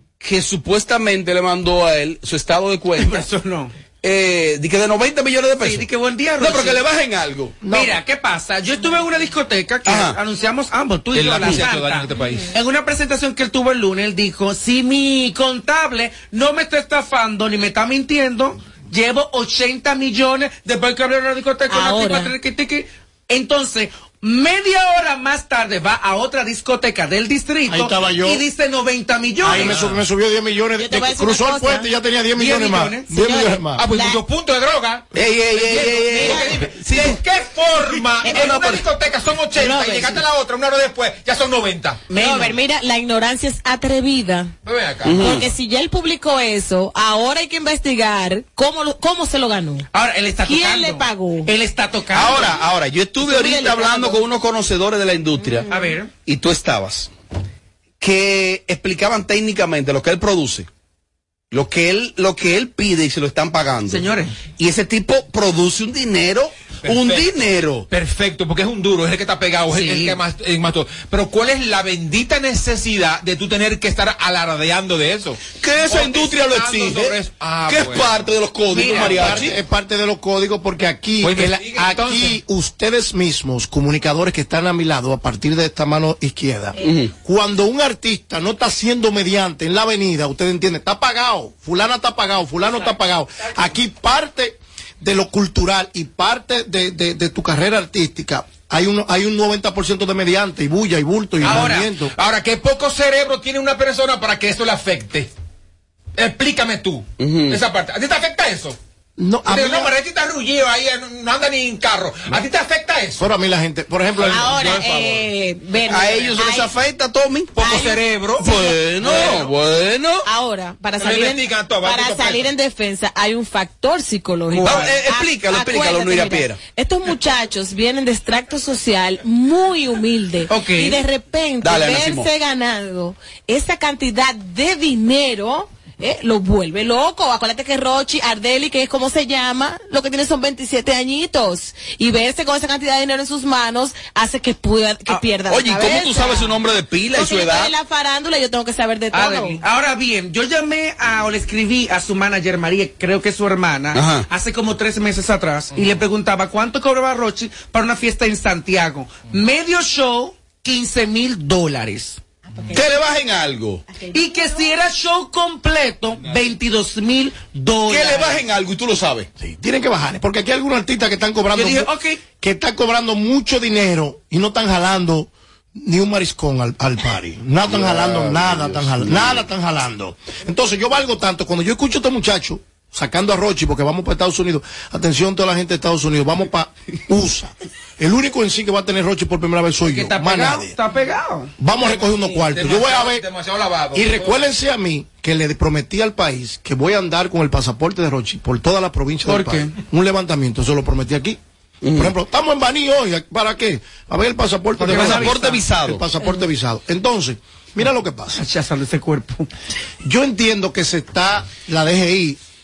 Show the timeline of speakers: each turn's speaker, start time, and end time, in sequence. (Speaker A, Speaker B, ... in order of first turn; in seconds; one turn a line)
Speaker A: 0.2-3.3
Speaker B: 3.0-3.7
Speaker A: 4.0-7.6
Speaker B: 5.6-6.8
Speaker C: 7.6-8.0
Speaker B: 7.7-29.8
Speaker A: 9.8-10.2
Speaker D: 11.1-12.5
Speaker E: 21.7-22.3
Speaker C: 27.7-28.4
Speaker C: 29.4-33.8
Speaker D: 29.6-30.0
Speaker E: 30.8-31.9
Speaker B: 32.4-33.1
Speaker E: 33.1-34.2
Speaker D: 33.8-42.0
Speaker A: 35.1-37.2
Speaker E: 36.1-36.5
Speaker E: 38.2-38.5
Speaker A: 38.3-38.8
Speaker E: 39.6-40.2
Speaker B: 42.1-42.6
Speaker E: 42.1-44.5
Speaker D: 44.6-45.5
Speaker A: 45.0-45.4
Speaker E: 45.1-49.9
Speaker B: 49.9-52.6
Speaker E: 50.4-51.5
Speaker A: 52.1-55.7
Speaker E: 53.2-54.2
Speaker E: 55.4-55.9
Speaker B: 55.7-56.1
Speaker A: 56.2-57.1
Speaker A: 58.0-60.7
Speaker A: 61.5-67.9
Speaker B: 63.9-64.3
Speaker D: 66.8-67.3
Speaker D: 67.9-78.3
Speaker B: 69.7-70.2
Speaker A: 75.6-77.2
Speaker A: 77.7-79.6
Speaker B: 78.7-79.3
Speaker D: 79.0-79.4
Speaker C: 79.0-102.1
Speaker D: 81.2-82.4
Speaker A: 86.8-87.1
Speaker B: 101.4-101.9
Speaker D: 101.4-105.3
Speaker D: 106.2-108.8
Speaker A: 107.2-107.6
Speaker C: 109.2-109.9
Speaker D: 109.5-113.2
Speaker C: 113.2-114.7
Speaker D: 114.2-114.8
Speaker E: 114.3-116.7
Speaker A: 114.7-115.1
Speaker A: 115.9-117.8
Speaker D: 117.6-119.5
Speaker E: 117.6-118.0
Speaker A: 118.4-120.3
Speaker E: 120.2-146.6
Speaker D: 121.0-122.5
Speaker B: 124.5-124.9
Speaker A: 124.6-126.6
Speaker B: 130.5-131.0
Speaker A: 131.6-132.3
Speaker A: 145.5-147.7
Speaker E: 147.1-149.6
Speaker B: 149.1-162.2
Speaker A: 153.9-154.3
Speaker A: 162.7-163.8
Speaker B: 164.1-168.4
Speaker A: 167.9-169.3
Speaker C: 169.4-190.8
Speaker B: 171.5-172.2
Speaker A: 177.7-179.5
Speaker B: 189.8-191.5
Speaker C: 191.6-193.2
Speaker D: 191.8-194.5
Speaker C: 193.9-201.4
Speaker B: 199.3-199.7
Speaker A: 201.8-202.1
Speaker C: 201.9-208.4
Speaker B: 204.8-205.6
Speaker A: 204.9-206.0
Speaker B: 208.3-209.5
Speaker C: 210.0-212.4